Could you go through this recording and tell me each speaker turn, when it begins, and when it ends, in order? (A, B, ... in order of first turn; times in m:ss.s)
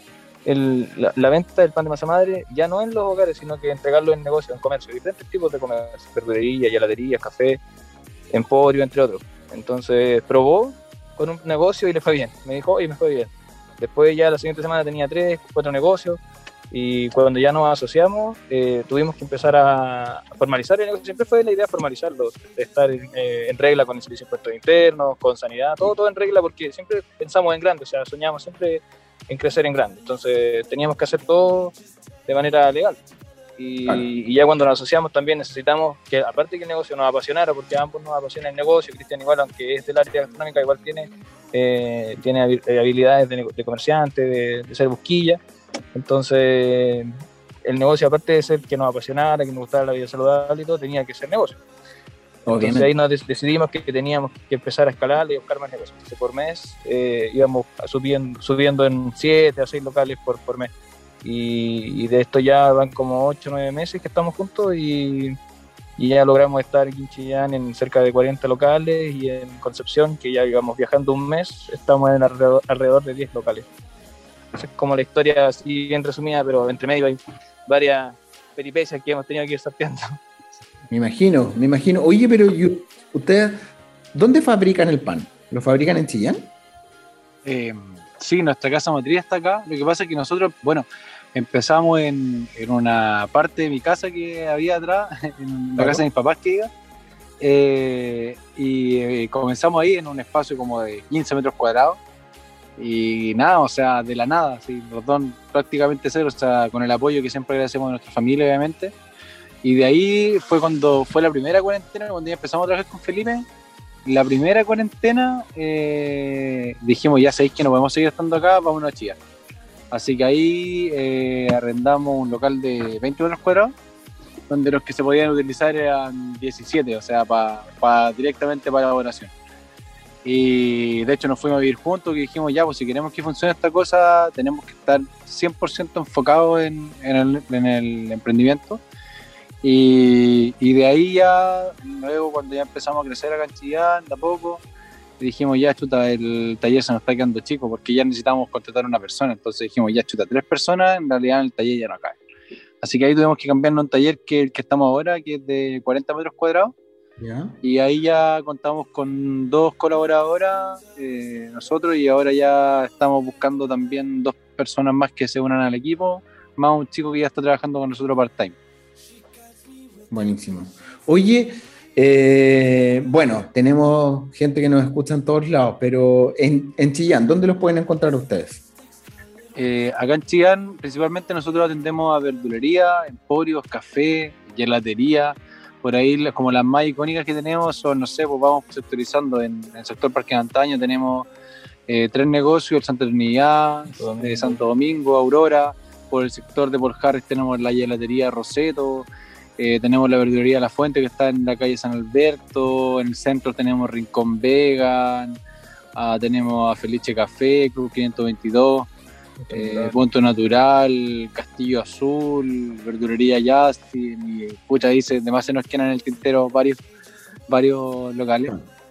0:00.4-0:07.6 A
0:08.3-0:16.2 A
0:16.7-0:31.8 A
0:32.3-0:33.0 A
0:33.6-0:45.4 A
0:45.9-0:47.1 A
0:47.6-0:51.6 A
0:52.5-0:52.9 B
0:52.5-1:00.7 A
1:01.2-1:05.4 A
1:06.0-1:13.7 A
1:14.6-1:20.2 A
1:20.9-1:23.6 B
1:24.1-1:26.5 B
1:27.4-1:36.7 C
1:35.8-1:36.0 B
1:37.4-1:42.0 C
1:42.8-1:48.9 C
1:49.6-1:53.4 C
1:54.0-1:59.2 C
1:59.9-2:03.7 C
2:04.5-2:09.3 C
2:10.2-2:18.8 C
2:19.6-2:24.6 C
2:25.2-2:32.2 C
2:32.8-2:36.7 C
2:37.2-2:37.6 B
2:37.6-2:48.6 C
2:50.1-2:58.6 B
2:59.6-3:11.3 C
3:11.9-3:25.4 C
3:13.9-3:14.6 A
3:26.0-3:28.9 C
3:29.5-3:30.0 B
3:29.5-3:36.8 C
3:37.5-3:38.5 C